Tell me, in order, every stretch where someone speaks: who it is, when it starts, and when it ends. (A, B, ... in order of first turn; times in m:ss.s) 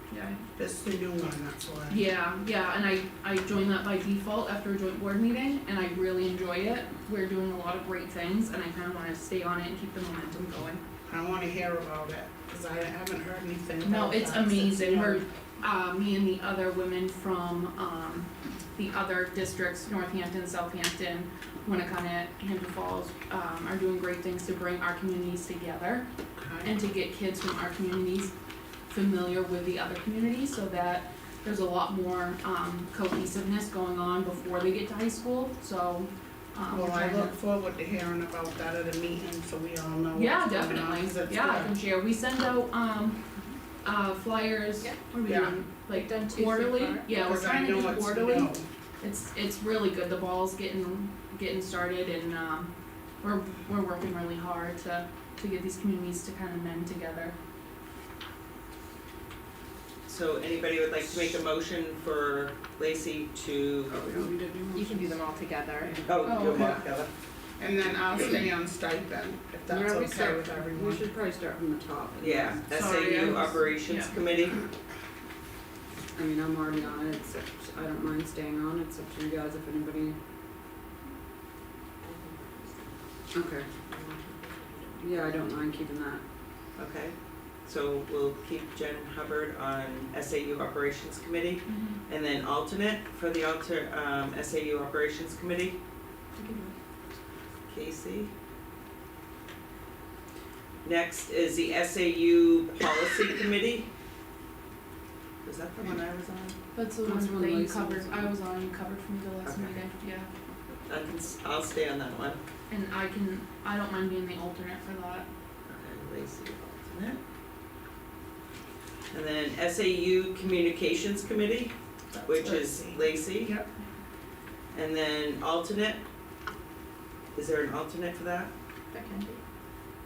0:00.1-0:00.4 A
0:00.6-0:02.0 B
0:01.9-0:10.8 A
0:11.1-0:15.2 B
0:13.8-0:26.0 A
0:26.4-0:26.7 B
0:26.6-0:28.3 A
0:28.9-0:37.4 A
0:36.7-0:41.7 B
0:40.1-0:43.2 A
0:43.8-0:57.3 A
0:45.2-0:45.6 B
0:45.9-0:47.1 C
0:47.1-0:48.6 B
1:00.1-1:03.9 D
1:03.9-1:05.2 E
1:04.7-1:06.0 C
1:05.8-1:06.2 E
1:06.0-1:07.1 D
1:06.2-1:06.8 A
1:06.5-1:06.9 B
1:07.6-1:11.1 B
1:09.7-1:13.5 E
1:12.2-1:14.6 D
1:12.7-1:14.2 A
1:16.1-1:20.2 E
1:22.1-1:22.7 D
1:23.3-1:23.7 E
1:23.8-1:25.3 D
1:25.0-1:26.2 E
1:26.7-1:35.8 D
1:31.7-1:32.0 A
1:36.4-1:36.7 C
1:37.7-1:38.3 D
1:40.8-1:43.9 D
1:45.4-1:46.6 D
1:46.7-1:50.3 A
1:47.0-1:48.3 E
1:49.4-1:49.8 D
1:50.9-1:52.4 D
1:52.7-1:55.3 A
1:55.7-1:57.2 D
1:59.1-2:03.5 D
2:02.1-2:03.7 B
2:04.7-2:06.0 D
2:07.3-2:08.5 D
2:08.9-2:09.4 C